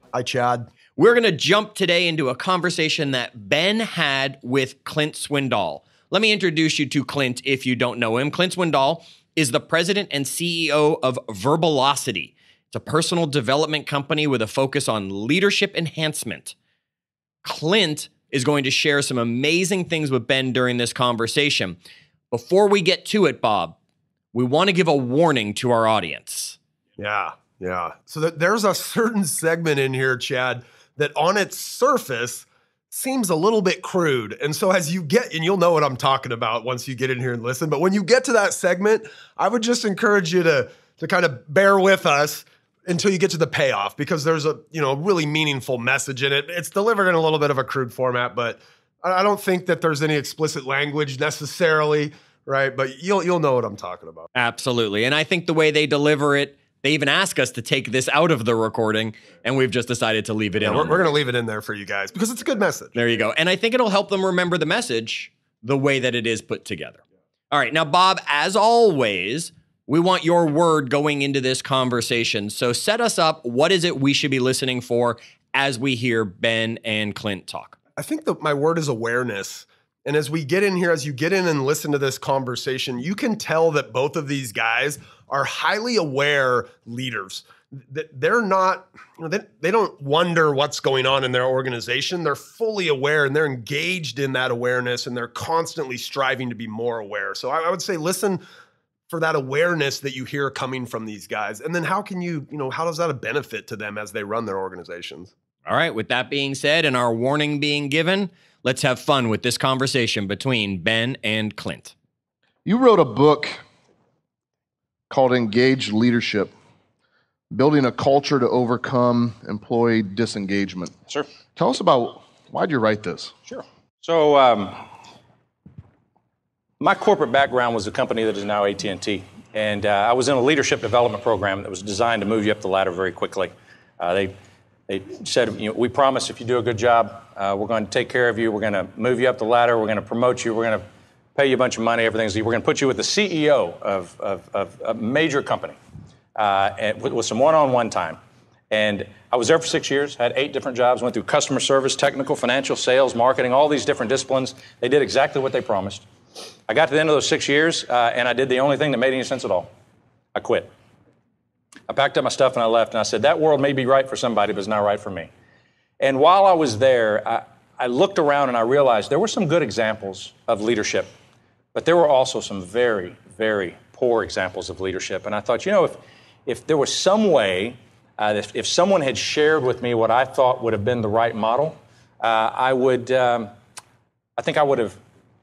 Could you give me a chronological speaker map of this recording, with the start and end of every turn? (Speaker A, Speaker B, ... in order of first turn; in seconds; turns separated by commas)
Speaker A: 0.1-0.7, Speaker B: 0.9-16.5, Speaker B: 17.4-21.8, Speaker B: 22.3-23.8, Speaker B: 24.3-26.6, Speaker A: 27.0-54.3, Speaker B: 54.3-61.1, Speaker A: 60.6-62.9, Speaker B: 62.9-77.8, Speaker A: 78.0-98.4, Speaker A: 99.1-105.3, Speaker B: 105.7-111.9, Speaker C: 112.6-113.6, Speaker C: 115.1-116.5, Speaker C: 117.5-120.9, Speaker C: 121.5-123.3, Speaker D: 123.5-124.8, Speaker D: 126.8-134.3, Speaker D: 134.9-145.8, Speaker D: 146.3-148.2, Speaker D: 148.7-156.1, Speaker D: 156.7-159.7, Speaker D: 160.3-160.7, Speaker D: 161.9-165.3, Speaker D: 166.0-171.1, Speaker D: 171.7-183.5, Speaker D: 184.4-185.0